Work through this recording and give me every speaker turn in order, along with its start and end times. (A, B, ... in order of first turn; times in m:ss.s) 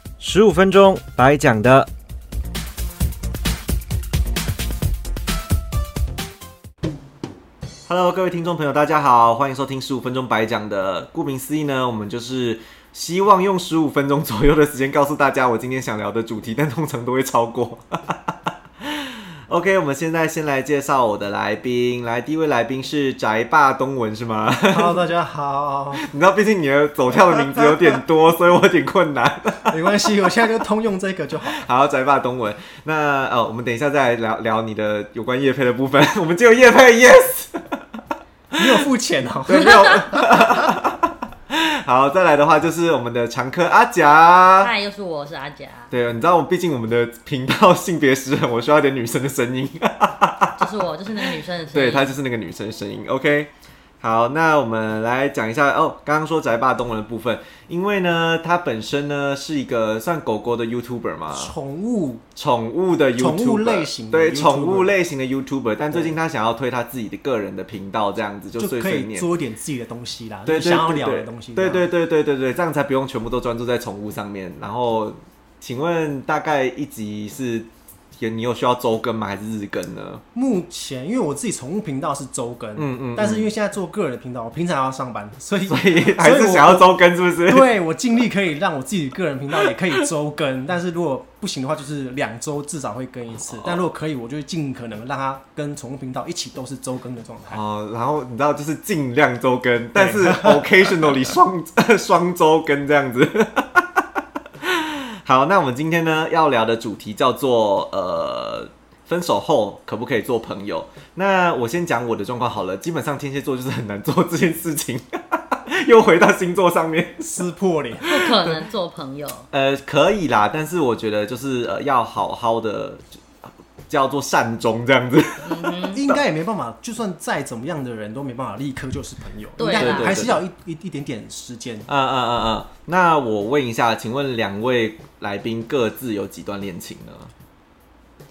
0:00.2-0:01.9 A
0:07.8-0:25.0 A
0:24.7-0:26.0 B
0:26.0-0:29.8 A
0:27.1-0:27.9 B
0:29.7-0:31.6 B
0:31.5-0:37.8 A
0:38.5-0:40.6 B
0:39.5-0:44.7 A
0:44.6-0:45.9 C
0:45.9-0:50.7 A
0:50.6-0:52.1 C
0:51.7-0:53.5 A
0:54.0-1:01.5 A
1:01.3-1:02.2 B
1:02.4-1:09.2 A
1:03.2-1:04.9 B
1:05.9-1:06.2 B
1:08.6-1:11.8 B
1:10.4-1:20.2 A
1:20.3-1:26.9 B
1:22.8-1:23.5 A
1:25.6-1:27.7 A
1:27.5-1:37.6 B
1:33.5-1:33.8 A
1:37.5-1:44.0 A
1:40.0-1:40.6 B
1:44.6-1:57.4 A
1:57.3-1:58.3 B
1:58.0-1:59.5 C
1:59.5-2:03.1 A
2:03.9-2:06.2 A
2:05.4-2:06.0 C
2:05.9-2:11.9 B
2:09.6-2:10.3 C
2:09.7-2:10.4 A
2:11.9-2:17.3 A